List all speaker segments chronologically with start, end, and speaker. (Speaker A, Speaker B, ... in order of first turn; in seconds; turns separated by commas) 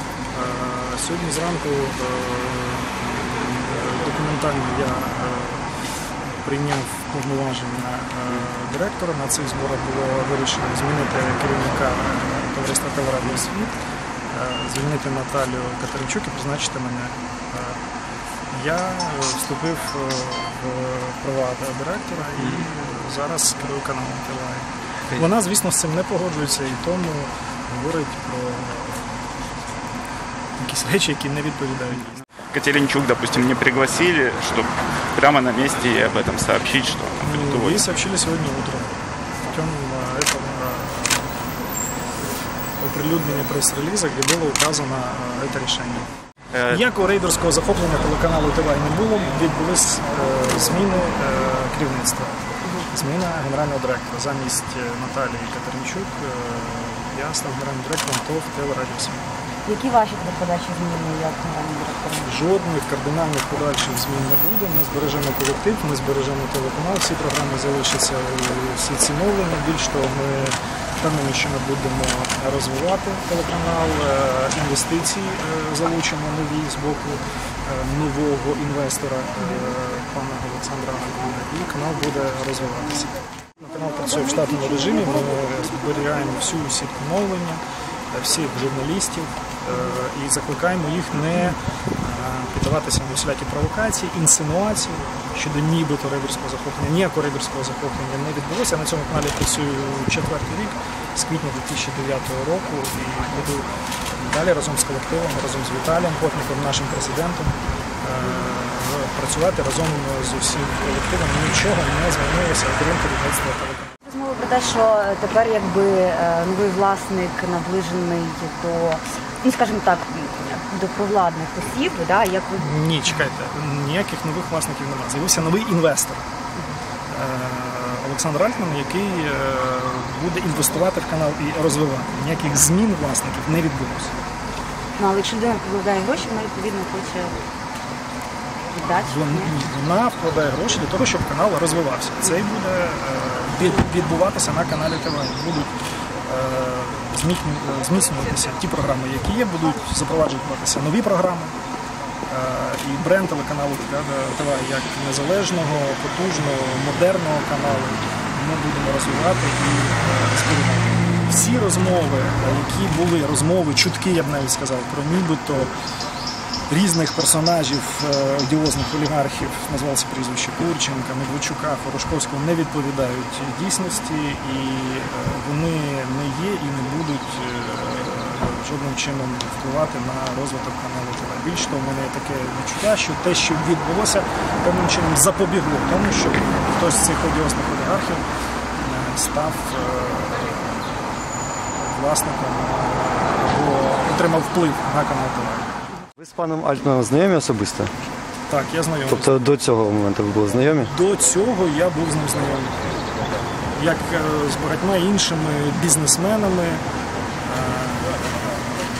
Speaker A: 0.3-5.7, Speaker A: 6.3-13.7, Speaker A: 14.3-17.8, Speaker A: 18.5-29.1, Speaker A: 30.6-32.2, Speaker B: 32.5-37.9, Speaker A: 37.2-38.9, Speaker A: 39.5-41.3, Speaker A: 42.8-46.1, Speaker B: 46.5-46.8, Speaker A: 46.7-59.4, Speaker C: 59.6-62.4, Speaker A: 62.2-113.9, Speaker C: 114.0-122.8, Speaker A: 122.6-126.2, Speaker A: 127.1-134.1, Speaker C: 135.0-137.3, Speaker C: 138.7-139.5, Speaker A: 138.9-145.7, Speaker A: 146.2-151.6, Speaker A: 152.3-165.7, Speaker A: 166.7-188.2, Speaker A: 188.8-190.8, Speaker A: 191.7-195.8, Speaker D: 196.2-197.9, Speaker A: 198.5-199.4, Speaker D: 199.1-200.9, Speaker A: 200.8-202.8, Speaker A: 203.7-206.8, Speaker A: 207.4-208.1